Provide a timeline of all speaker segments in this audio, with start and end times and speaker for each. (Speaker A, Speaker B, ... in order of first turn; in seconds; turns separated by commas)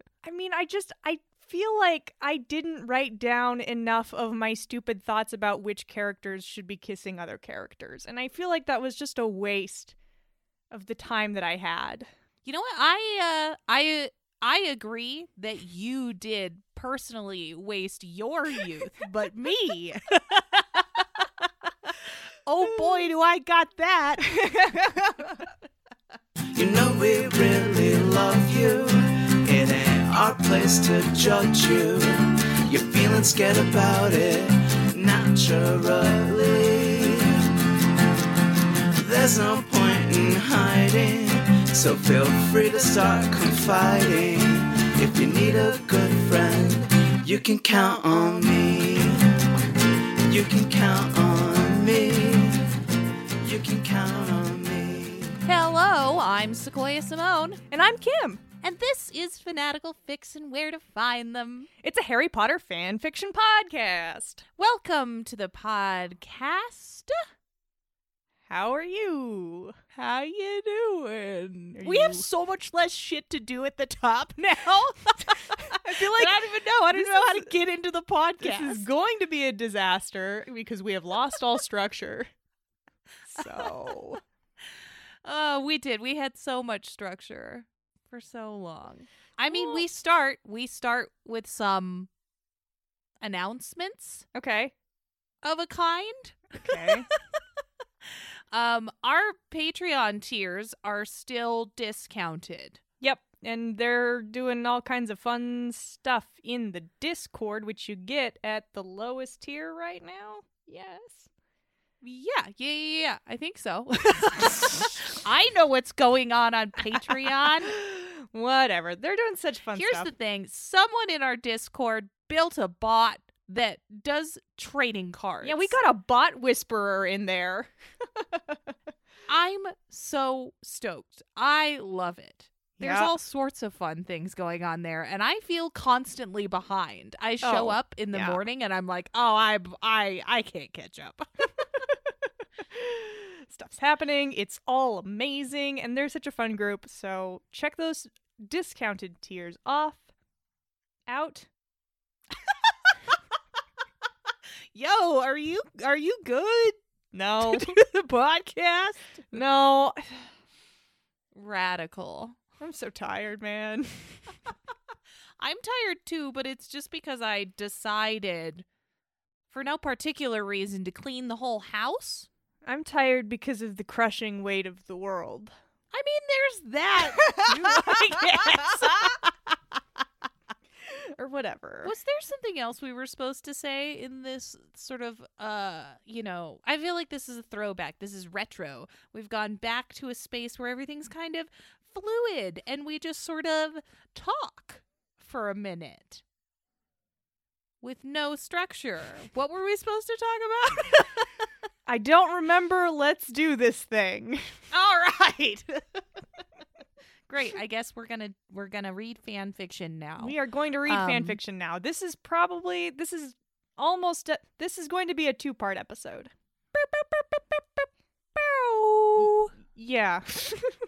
Speaker A: 0.2-9.9, Speaker A: 10.7-12.1, Speaker B: 12.4-21.3, Speaker B: 21.9-24.4, Speaker A: 24.3-25.5, Speaker C: 26.6-37.6, Speaker C: 39.0-52.8, Speaker C: 53.4-55.4, Speaker B: 55.5-57.6, Speaker A: 57.7-58.4, Speaker B: 58.6-61.7, Speaker A: 61.8-64.4, Speaker B: 64.6-67.2, Speaker A: 68.5-69.8, Speaker B: 70.0-78.8, Speaker A: 71.8-72.2, Speaker A: 75.7-77.5, Speaker A: 78.4-82.3, Speaker A: 83.3-84.2, Speaker B: 85.2-92.1, Speaker A: 89.5-89.8, Speaker B: 93.2-94.2, Speaker A: 94.3-94.7, Speaker B: 95.4-97.4, Speaker A: 96.6-97.1, Speaker B: 98.1-102.8, Speaker A: 103.0-111.3, Speaker B: 112.0-117.8, Speaker A: 117.6-120.1, Speaker B: 119.8-125.8, Speaker A: 125.4-128.6, Speaker B: 129.3-141.2, Speaker A: 132.8-133.1, Speaker A: 137.4-138.4, Speaker A: 142.7-150.1, Speaker A: 151.1-151.5, Speaker B: 154.7-156.8, Speaker A: 157.1-157.8, Speaker B: 157.4-159.3, Speaker A: 159.3-160.3, Speaker B: 161.3-162.4, Speaker A: 162.6-164.4, Speaker B: 165.4-168.7, Speaker B: 169.5-172.3, Speaker A: 172.7-175.5, Speaker B: 175.9-179.3, Speaker A: 177.2-179.2, Speaker A: 180.9-181.9, Speaker B: 181.8-196.2, Speaker B: 197.8-201.5, Speaker A: 201.9-204.5, Speaker B: 204.7-206.2, Speaker B: 207.3-211.4, Speaker A: 210.2-217.6, Speaker A: 218.4-220.8